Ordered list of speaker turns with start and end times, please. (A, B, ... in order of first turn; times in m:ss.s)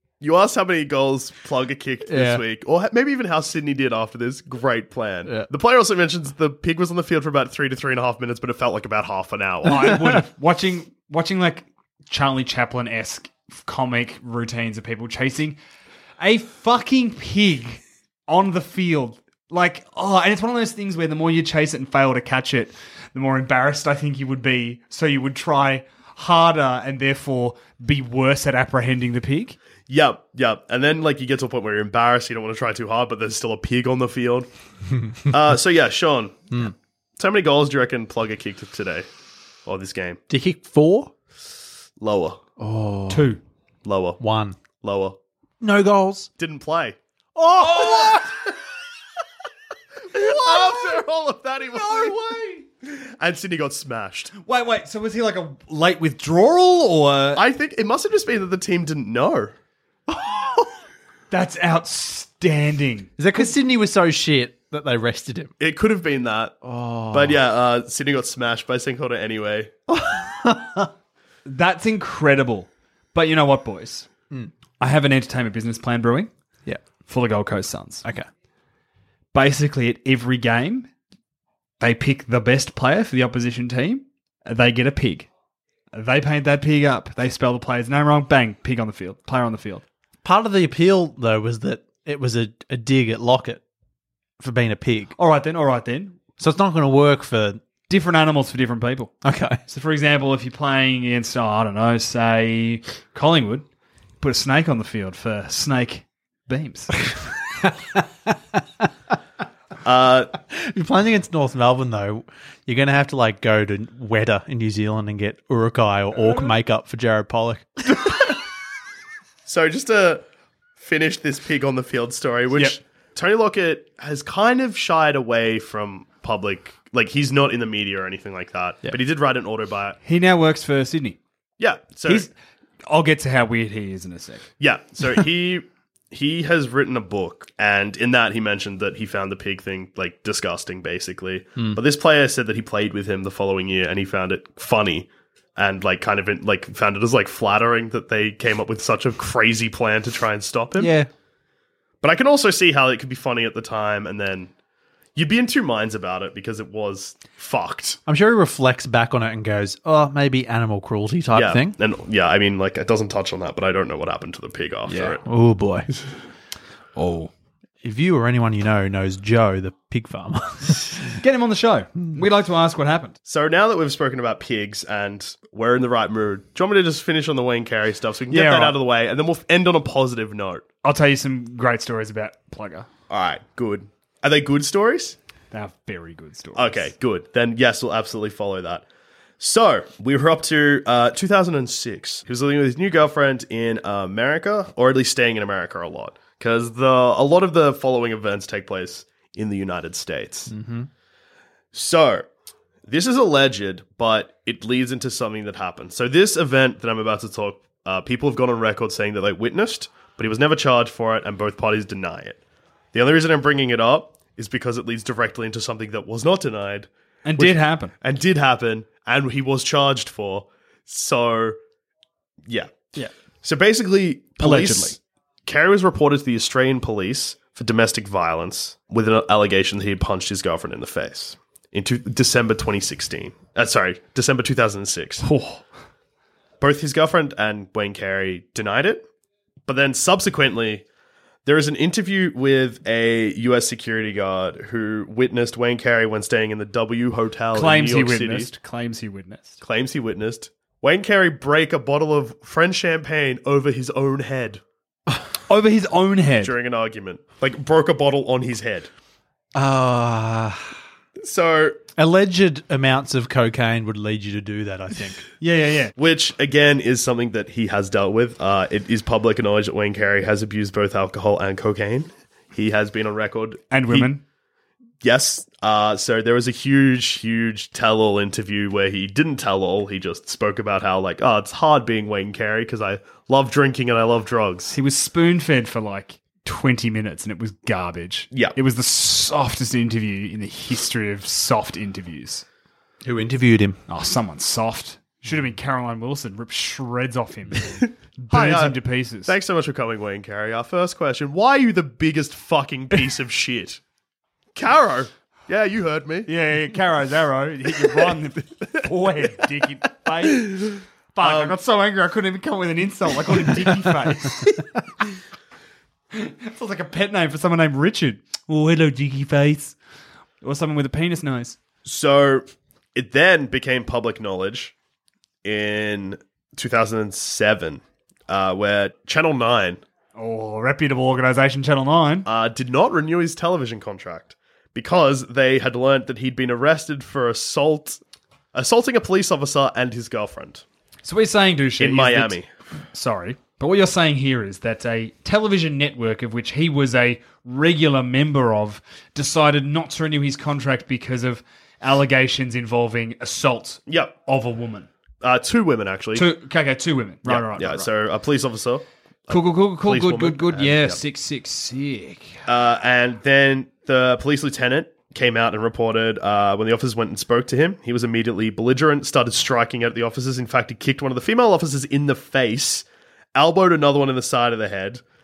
0:00.2-0:09.9 A
0:02.1-0:02.4 B
0:09.6-0:15.6 C
0:16.2-0:29.6 C
0:29.9-0:34.5 A
0:35.3-0:36.6 A
0:37.2-0:39.1 A
0:39.7-0:40.2 A
0:40.3-0:41.1 B
0:42.0-0:42.4 A
0:42.6-0:43.3 B
0:43.1-0:43.4 C
0:43.8-0:44.2 A
0:44.2-0:44.6 B
0:44.8-0:45.2 A
0:45.6-0:46.3 B
0:46.4-0:47.0 A
0:47.4-0:48.4 B
0:47.6-0:48.0 C
0:50.1-0:54.3 A
0:50.2-0:51.0 B
0:51.8-0:52.1 B
0:54.4-0:57.4 C
0:57.4-0:59.6 A
1:00.1-1:00.8 B
1:01.3-1:03.5 C
1:03.2-1:05.5 B
1:05.6-1:06.6 A
1:06.6-1:07.4 B
1:07.1-1:09.7 A
1:09.9-1:10.9 B
1:11.5-1:14.1 C
1:14.8-1:16.3 C
1:17.1-1:18.0 C
1:19.3-1:20.9 C
1:21.8-1:25.3 C
1:25.9-1:29.8 C
1:30.2-1:33.6 B
1:34.4-1:35.2 B
1:35.2-1:36.2 C
1:36.4-1:37.6 B
1:37.9-1:39.2 C
1:39.2-1:39.6 B
1:39.7-1:43.6 C
1:44.2-1:47.1 C
1:49.8-1:50.3 A
1:50.4-1:58.1 B
1:59.5-2:00.2 A
2:00.8-2:10.0 A
2:10.0-2:11.2 C
2:11.6-2:12.3 A
2:12.1-2:12.3 C
2:12.9-2:14.4 C
2:14.6-2:30.9 A
2:30.8-2:31.1 B
2:32.0-2:34.5 A
2:35.2-2:38.0 A
2:38.1-2:41.8 B
2:41.3-2:45.2 A
2:44.9-2:45.9 B
2:47.0-2:47.3 C
2:47.8-2:51.2 B
2:51.2-2:53.2 C
2:53.3-3:00.6 A
2:58.3-2:58.8 C
3:00.8-3:02.9 C
3:03.1-3:05.2 A
3:05.5-3:06.9 C
3:06.6-3:08.8 A
3:09.4-3:20.5 A
3:20.5-3:20.9 B
3:21.7-3:22.3 A
3:22.9-3:32.4 A
3:32.9-3:41.6 A
3:37.2-3:37.9 C
3:42.5-3:42.9 A
3:43.4-3:55.3 A
3:44.4-3:45.0 C
3:55.2-3:55.6 C
3:56.6-3:59.1 A
3:59.7-4:00.8 A
4:01.4-4:08.5 A
4:07.5-4:09.6 C
4:09.6-4:14.6 A
4:15.5-4:16.5 C
4:16.4-4:18.9 A
4:19.6-4:20.7 B
4:21.2-4:21.8 A
4:22.0-4:25.3 B
4:25.4-4:25.9 C
4:26.0-4:34.1 A
4:33.7-4:34.2 C
4:35.0-4:44.7 A
4:44.7-4:52.4 C
4:53.0-4:53.8 B
4:53.9-4:59.3 C
4:58.3-5:03.8 A
5:04.6-5:06.3 A
5:06.3-5:14.5 C
5:11.2-5:11.6 A
5:16.1-5:19.8 C
5:20.4-5:21.6 C
5:21.8-5:24.7 A
5:25.4-5:29.8 A
5:30.2-5:32.3 C
5:32.3-5:38.0 A
5:38.5-5:40.6 A
5:41.0-5:42.4 C
5:41.8-5:42.5 A
5:42.9-5:54.9 C
5:53.9-5:54.1 A
5:55.2-5:56.3 A
5:56.2-5:57.9 C
5:57.3-6:01.0 A
5:59.3-6:02.4 C
6:02.5-6:15.0 A